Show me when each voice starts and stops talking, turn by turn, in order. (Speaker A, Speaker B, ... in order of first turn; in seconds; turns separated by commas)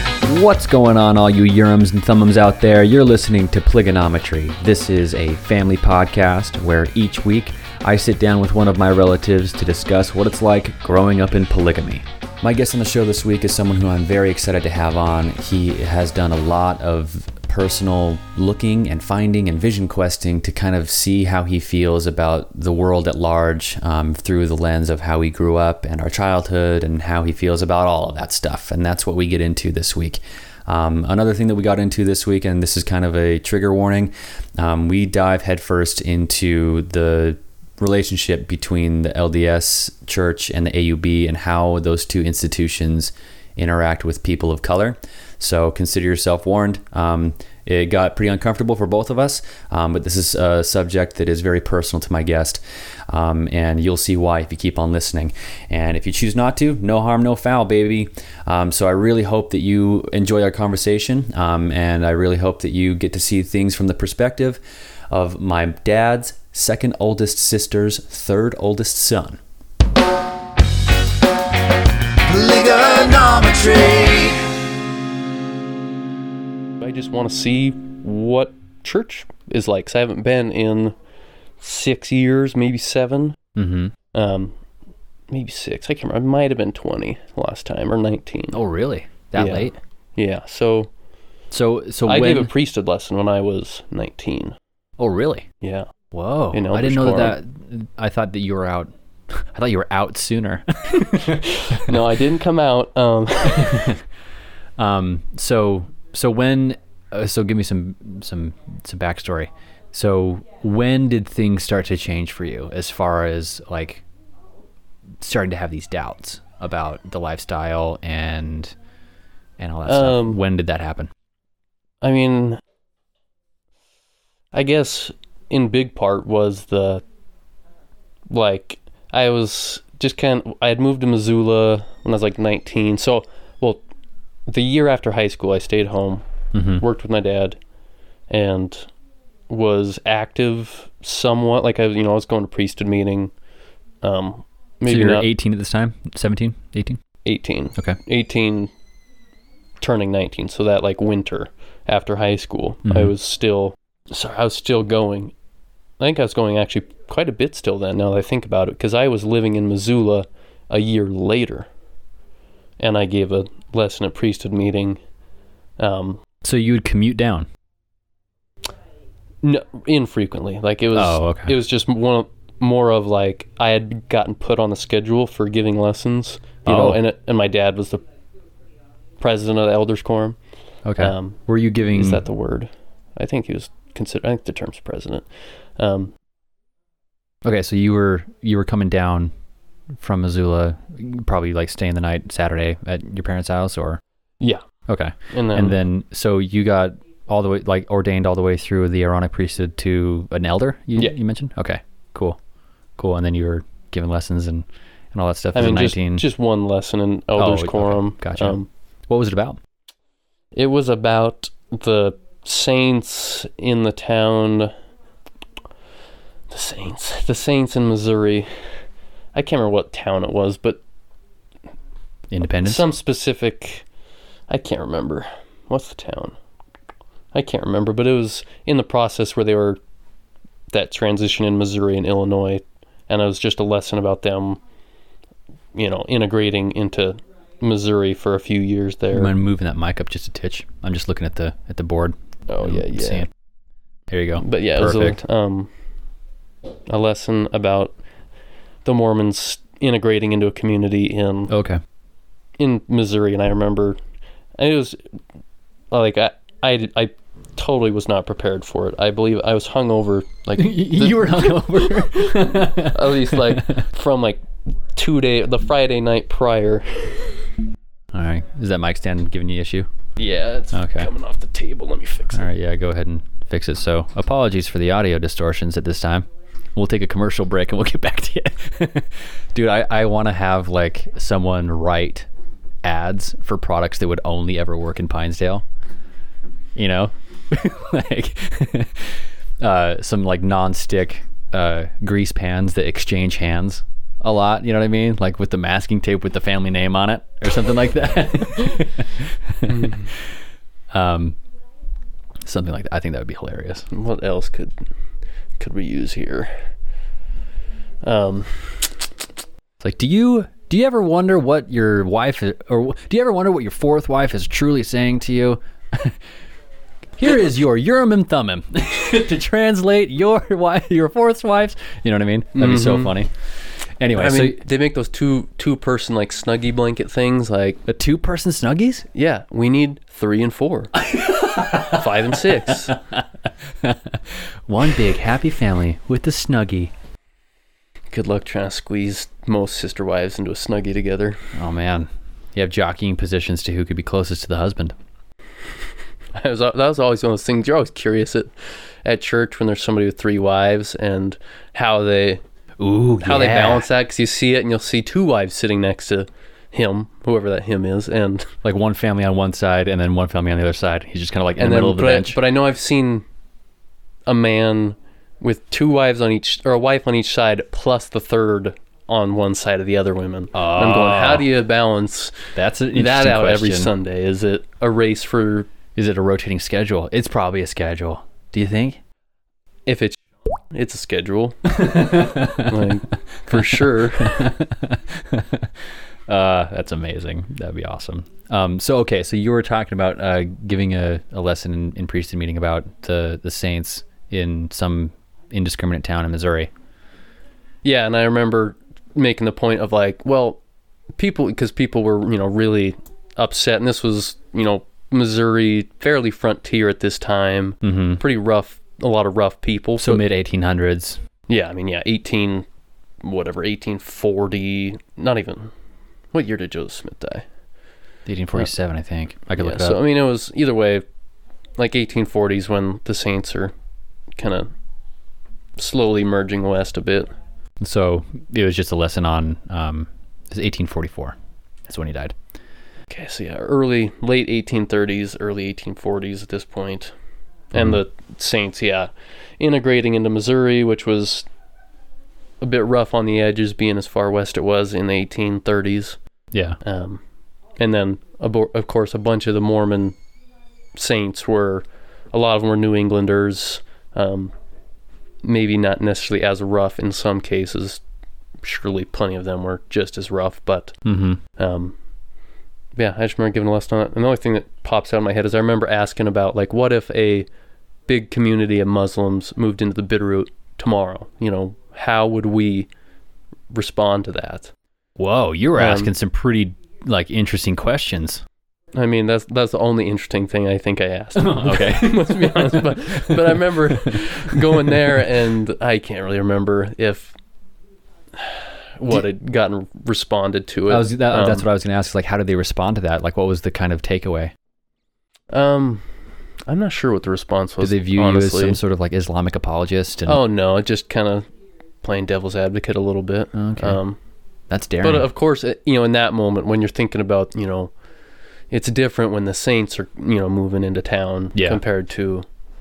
Speaker A: 0.2-69.4, Speaker B: 72.2-74.5, Speaker C: 76.8-81.0, Speaker C: 81.6-83.4, Speaker A: 83.5-83.9, Speaker C: 84.1-84.5, Speaker C: 85.3-88.6, Speaker A: 88.5-89.8, Speaker C: 89.4-90.9, Speaker A: 91.5-92.5, Speaker C: 92.0-94.5, Speaker A: 95.0-95.5, Speaker C: 95.6-95.9, Speaker A: 96.1-102.0, Speaker C: 96.5-97.4, Speaker C: 101.1-104.0, Speaker A: 103.5-104.0, Speaker A: 104.8-114.0, Speaker A: 115.2-118.8, Speaker A: 119.6-121.1, Speaker C: 119.9-120.4, Speaker C: 122.0-122.6, Speaker C: 124.5-127.0, Speaker C: 128.3-133.8, Speaker C: 134.5-136.2, Speaker A: 136.5-136.8, Speaker C: 136.8-137.6, Speaker C: 138.3-138.9, Speaker C: 139.5-143.3, Speaker C: 144.0-145.3, Speaker A: 144.9-147.0, Speaker C: 147.2-148.7, Speaker C: 149.8-155.3, Speaker A: 152.9-153.1, Speaker C: 156.0-161.7, Speaker C: 162.8-165.0, Speaker C: 165.8-166.2, Speaker A: 166.4-167.5, Speaker C: 169.4-178.0, Speaker A: 170.9-171.6, Speaker A: 176.7-177.0, Speaker C: 179.2-180.4, Speaker A: 180.8-182.2, Speaker C: 181.0-181.4, Speaker C: 181.9-185.3, Speaker C: 185.8-186.1, Speaker A: 187.4-189.3, Speaker A: 190.0-194.0, Speaker A: 194.9-202.4, Speaker C: 195.3-195.8, Speaker A: 203.0-206.3, Speaker C: 205.6-208.7, Speaker A: 207.3-209.6, Speaker C: 210.6-214.7, Speaker C: 216.5-218.5, Speaker C: 219.3-220.8, Speaker A: 222.3-222.9, Speaker C: 222.6-223.8, Speaker C: 224.5-226.4, Speaker C: 227.3-229.8, Speaker C: 230.7-234.6, Speaker C: 235.8-239.3, Speaker A: 239.1-243.3, Speaker C: 242.5-243.3, Speaker A: 244.1-245.2, Speaker C: 244.4-245.7, Speaker C: 246.9-247.9, Speaker C: 248.8-251.5, Speaker A: 251.5-251.8, Speaker C: 252.6-254.0, Speaker C: 254.6-255.0, Speaker C: 255.9-267.4, Speaker A: 260.6-263.8, Speaker A: 268.1-269.9, Speaker C: 270.2-272.5, Speaker A: 270.7-271.1, Speaker A: 272.3-282.3, Speaker A: 282.8-285.6, Speaker A: 286.8-300.0, Speaker C: 299.7-300.1, Speaker A: 300.9-301.4, Speaker A: 302.4-303.9, Speaker C: 303.9-304.8, Speaker C: 305.6-306.5, Speaker C: 308.0-309.1, Speaker A: 309.8-316.2, Speaker A: 317.2-323.3, Speaker C: 322.5-323.2, Speaker A: 324.0-324.6, Speaker C: 324.1-327.8, Speaker A: 327.9-329.1, Speaker C: 329.1-330.9, Speaker A: 331.0-333.2, Speaker C: 331.9-333.0, Speaker A: 333.8-336.9, Speaker C: 338.1-341.5, Speaker A: 341.5-344.9, Speaker C: 346.4-348.5, Speaker C: 349.1-352.4, Speaker A: 352.8-353.9, Speaker C: 353.2-358.5, Speaker A: 358.6-362.4, Speaker C: 361.6-363.2, Speaker C: 364.3-375.7, Speaker A: 370.5-371.5, Speaker A: 372.6-373.9, Speaker A: 375.9-379.0, Speaker C: 379.9-384.5, Speaker A: 381.8-382.9, Speaker A: 383.5-385.7, Speaker A: 386.3-396.7, Speaker C: 397.8-400.6, Speaker C: 401.2-410.2, Speaker A: 407.8-408.2, Speaker A: 410.0-411.2, Speaker C: 411.5-412.7, Speaker C: 413.2-415.7, Speaker C: 416.3-417.5, Speaker A: 418.3-420.0, Speaker C: 419.6-421.0, Speaker C: 421.8-423.7, Speaker C: 424.4-424.7, Speaker C: 425.8-427.3, Speaker A: 427.8-431.4, Speaker A: 431.9-432.4, Speaker C: 433.1-437.1, Speaker C: 437.7-441.5, Speaker C: 442.6-446.2, Speaker A: 446.5-446.8, Speaker C: 446.8-447.2, Speaker C: 447.8-450.2, Speaker C: 450.9-454.5, Speaker C: 455.4-458.0, Speaker C: 458.6-461.0, Speaker A: 461.1-461.4, Speaker C: 461.6-462.0, Speaker C: 463.0-467.5, Speaker C: 468.1-472.9, Speaker C: 473.7-474.7, Speaker A: 475.2-478.4, Speaker C: 475.8-476.1, Speaker C: 478.9-487.4, Speaker A: 481.4-484.6, Speaker C: 488.4-491.7, Speaker A: 490.9-494.5, Speaker C: 495.5-496.1, Speaker C: 496.7-498.8, Speaker A: 497.8-500.4, Speaker C: 500.3-501.5, Speaker C: 502.0-504.2, Speaker A: 503.5-504.0, Speaker A: 504.7-505.3, Speaker C: 505.0-507.9, Speaker C: 508.7-512.5, Speaker A: 511.6-511.8